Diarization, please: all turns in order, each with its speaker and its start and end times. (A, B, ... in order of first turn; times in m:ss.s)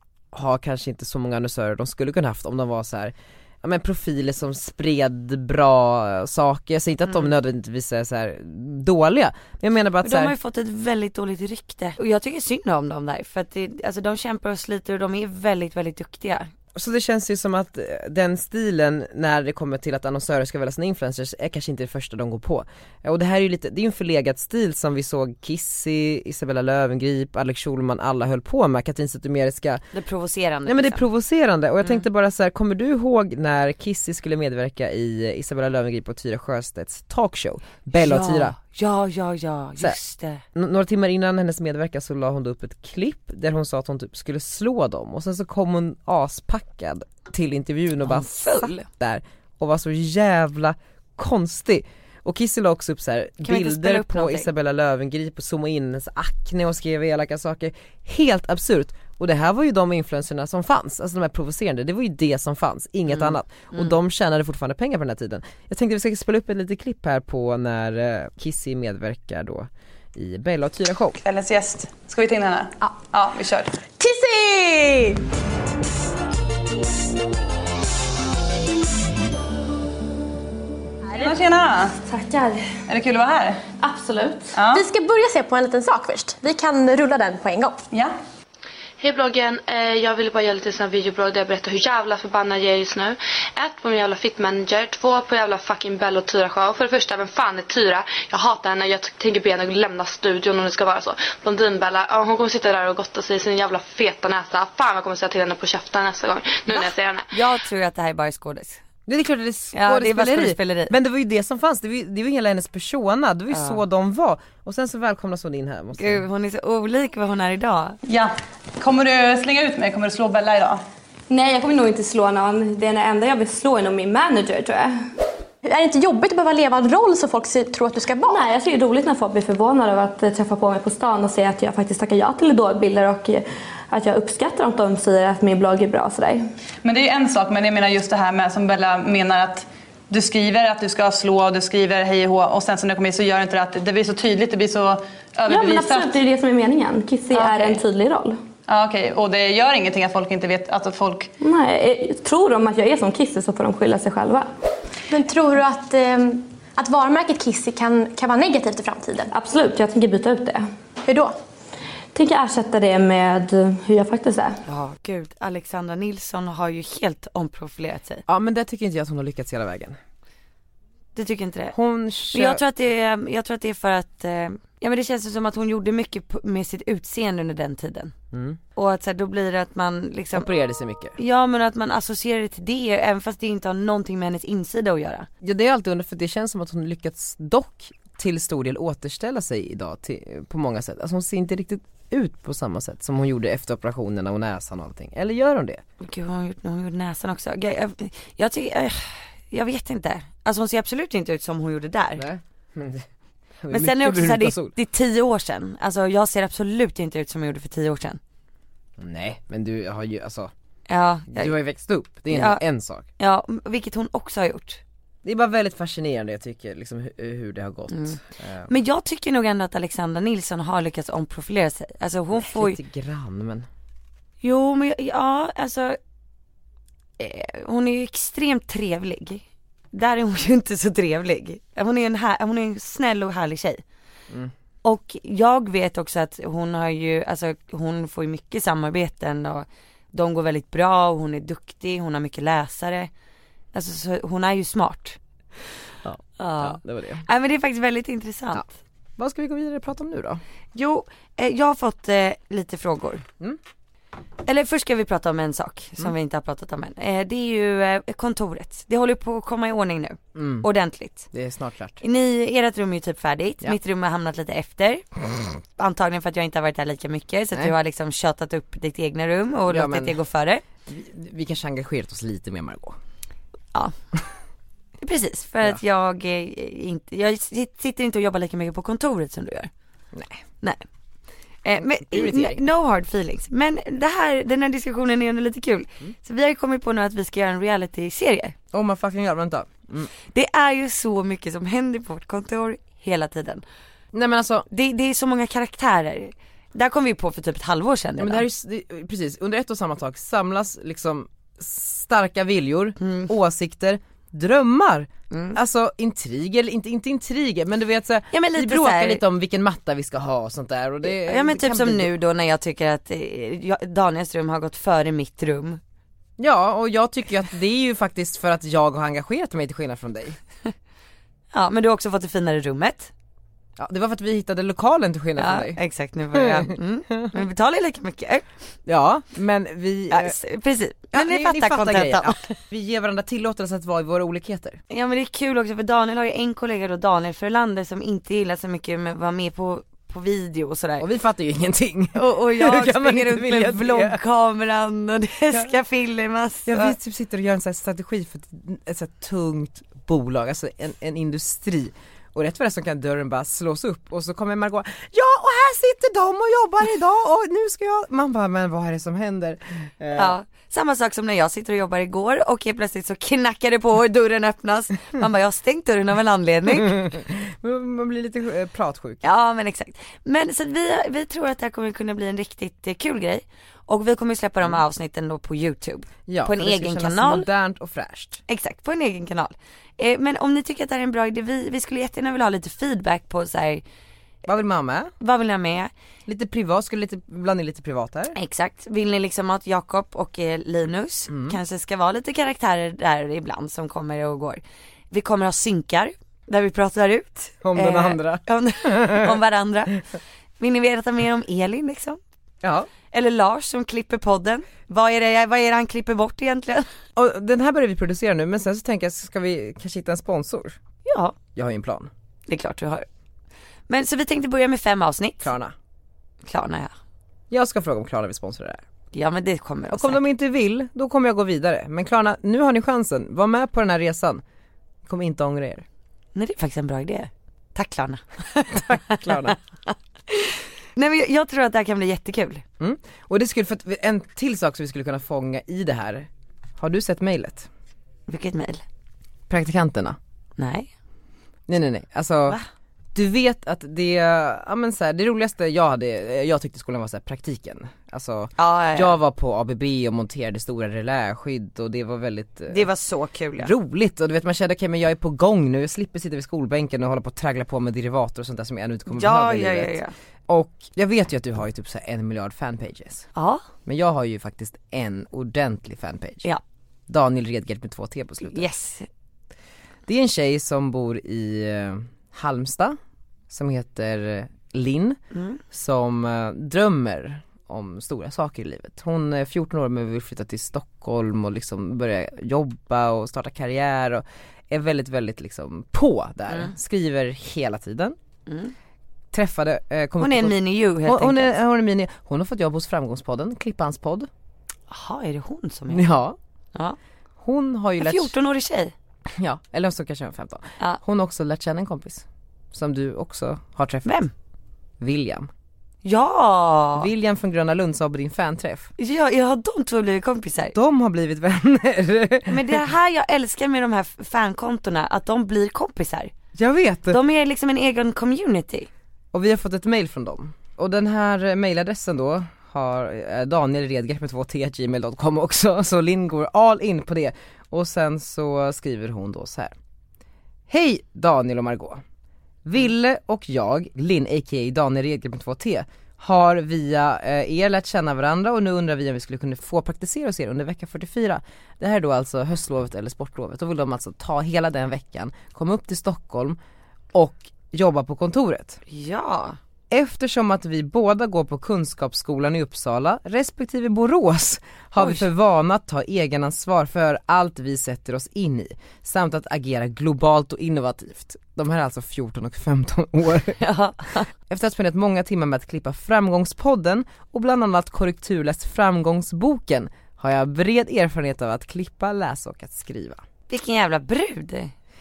0:00.3-0:10.3 A
0:10.0-0:16.5 B
0:16.7-0:29.8 A
0:29.9-0:31.0 B
0:30.6-0:38.6 A
0:38.0-0:40.4 B
0:40.5-1:11.2 A
0:48.0-0:48.9 B
0:53.4-0:54.5 B
1:03.1-1:03.9 B
1:11.2-1:13.7 C
1:14.0-1:15.2 D
1:21.1-1:22.0 C
1:22.0-1:22.7 D
1:22.9-1:23.6 C
1:23.8-1:24.8 D
1:24.5-1:24.8 C
1:24.8-1:27.8 E
1:29.0-1:47.3 F
1:46.7-1:48.8 B
1:49.1-1:56.2 A
1:49.7-1:50.9 B
1:53.5-1:53.8 B
1:56.0-1:58.0 B
1:58.0-2:00.8 C
2:01.3-2:05.0 D
2:05.6-2:08.4 E
2:08.1-2:16.4 D
2:16.8-2:26.2 C
2:25.5-2:28.4 D
2:27.3-2:27.8 C
2:28.7-2:31.3 C
2:31.4-2:34.5 D
2:35.1-2:39.2 E
2:39.2-2:40.6 D
2:41.1-2:41.3 E
2:42.1-2:44.6 D
2:44.6-2:48.2 B
2:48.3-2:50.0 A
2:51.1-2:51.7 B
2:51.7-2:52.6 A
2:52.3-2:58.1 B
2:58.3-2:58.6 A
2:58.8-3:00.5 B
3:00.3-3:01.2 A
3:01.2-3:05.3 B
3:05.4-3:15.8 A
3:16.0-3:22.3 B
3:22.2-3:23.0 A
3:23.6-3:24.7 A
3:23.7-3:28.2 B
3:29.0-3:30.5 A
3:30.9-3:31.5 B
3:31.3-3:33.1 A
3:32.3-3:32.6 B
3:33.2-3:34.8 B
3:35.2-3:38.7 A
3:37.9-3:42.8 B
3:42.3-3:43.7 A
3:44.4-3:46.0 B
3:47.2-3:53.8 B
3:54.8-4:03.1 B
4:03.7-4:05.2 B
4:06.0-4:07.2 A
4:06.4-4:08.7 B
4:09.2-4:10.4 A
4:10.7-4:13.2 B
4:14.4-4:21.3 B
4:20.3-4:20.7 A
4:21.3-4:22.0 A
4:22.0-4:25.0 B
4:25.8-4:30.6 B
4:29.7-4:30.2 A
4:30.8-4:33.0 A
4:35.0-4:39.7 B
4:40.1-4:40.4 A
4:41.6-4:48.5 B
4:42.0-4:42.6 A
4:48.7-4:50.1 A
4:50.3-4:53.6 B
4:54.1-4:54.7 A
4:54.7-4:58.4 B
4:58.2-5:12.1 A
5:03.0-5:03.3 B
5:05.3-5:05.6 B
5:08.3-5:09.2 B
5:11.0-5:15.8 B
5:16.4-5:20.4 A
5:21.5-5:23.1 B
5:23.8-5:25.8 A
5:25.4-5:28.4 B
5:26.3-5:27.3 A
5:28.8-5:30.4 A
5:30.1-5:32.5 B
5:31.1-5:34.8 A
5:34.9-5:41.0 B
5:41.0-5:44.2 A
5:42.1-5:46.9 B
5:46.7-6:00.3 A
6:00.1-6:07.1 B
6:06.8-6:09.2 A
6:09.2-6:17.5 B
6:16.3-6:18.4 A
6:18.5-6:23.8 B
6:24.4-6:25.1 A
6:25.2-6:25.9 B
6:26.3-6:28.4 A
6:28.3-6:40.0 B
6:31.3-6:31.6 A
6:37.6-6:39.4 A
6:40.6-6:42.2 B
6:42.6-6:42.9 A
6:43.1-6:46.8 B
6:47.2-6:50.8 A
6:51.0-6:51.3 B
6:51.5-6:52.1 A
6:52.5-6:53.1 B
6:53.9-6:55.5 B
6:55.4-6:55.7 A
6:56.4-6:56.9 B
6:57.5-6:58.8 A
6:59.1-7:00.2 B
6:59.9-7:04.4 A
7:05.0-7:05.8 A
7:06.3-7:12.6 B
7:08.7-7:09.6 A
7:12.8-7:17.7 A
7:18.3-7:18.8 B
7:19.5-7:20.2 A
7:20.6-7:20.9 B
7:21.7-7:22.6 A
7:23.1-7:32.9 A
7:28.6-7:29.1 B
7:32.7-7:33.7 B
7:33.6-7:43.2 A
7:39.1-7:40.1 B
7:43.3-7:43.6 B
7:43.8-7:46.4 A
7:47.1-7:48.7 A
7:48.4-7:49.1 B
7:50.1-7:53.0 A
7:53.5-7:55.2 A
7:55.3-7:55.6 B
7:55.7-8:08.2 A
8:08.4-8:08.7 B
8:09.3-8:14.3 A
8:10.2-8:11.5 B
8:14.9-8:16.1 B
8:15.9-8:16.4 A
8:17.4-8:18.3 A
8:18.0-8:18.9 B
8:19.3-8:24.1 A
8:24.0-8:24.3 B
8:25.0-8:25.5 A
8:26.0-8:27.1 B
8:27.0-8:28.9 A
8:29.0-8:30.8 B
8:30.7-8:32.8 A
8:32.5-8:36.3 B
8:36.5-8:37.2 A
8:37.1-8:38.9 B
8:39.3-8:49.7 A
8:50.7-8:52.0 A
8:52.6-9:06.6 A
9:07.1-9:08.8 A
9:08.9-9:09.6 B
9:09.9-9:23.6 A
9:15.0-9:15.2 B
9:23.6-9:24.3 B
9:24.5-9:33.2 A
9:33.5-9:34.7 B